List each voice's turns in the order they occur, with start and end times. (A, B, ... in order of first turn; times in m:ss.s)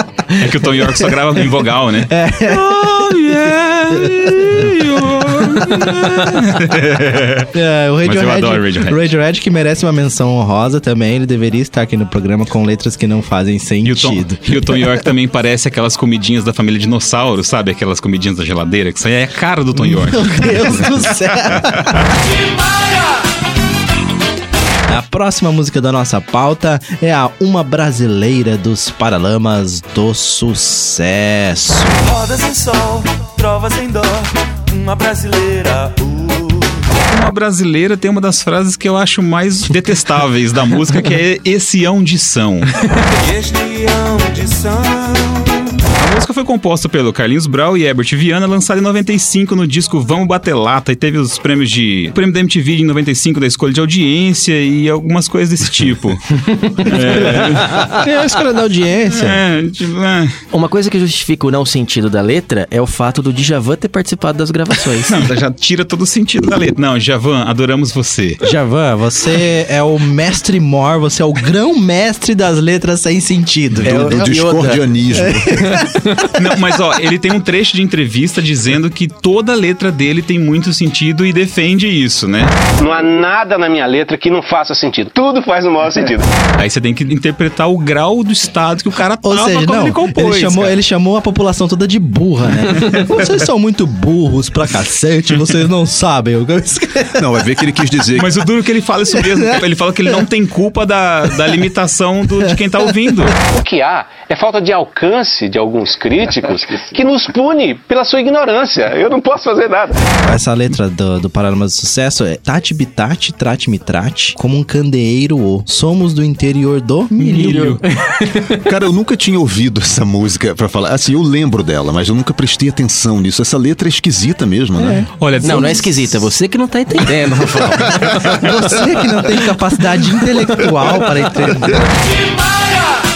0:00.4-0:07.5 A
0:00.4-0:01.4 B
0:02.0-0:06.5 B
0:07.5-0:15.1 B
0:08.0-0:09.0 A
0:13.8-0:21.9 A
0:19.7-0:22.1 B
0:22.2-0:23.1 C
0:24.9-0:32.0 B
0:32.0-0:36.8 C
0:37.0-0:42.7 A
0:43.2-0:45.7 C
0:46.0-0:58.0 A
0:56.9-0:59.4 B
0:59.1-1:00.4 A
1:00.5-1:05.2 D
1:05.1-1:08.4 A
1:08.4-1:16.2 B
1:13.8-1:15.8 E
1:13.8-1:14.8 D
1:16.3-1:22.5 A
1:22.8-1:26.4 F
1:26.6-1:30.8 A
1:29.2-1:37.3 B
1:37.2-1:38.4 E
1:38.2-1:43.4 A
1:39.1-1:39.6 B
1:43.4-1:50.1 F
1:50.2-1:57.8 B
1:57.2-1:57.8 A
1:57.2-1:58.7 D
1:58.6-2:05.1 E
2:04.8-2:05.8 B
2:05.2-2:06.1 A
2:05.4-2:08.4 D
2:08.3-2:11.9 B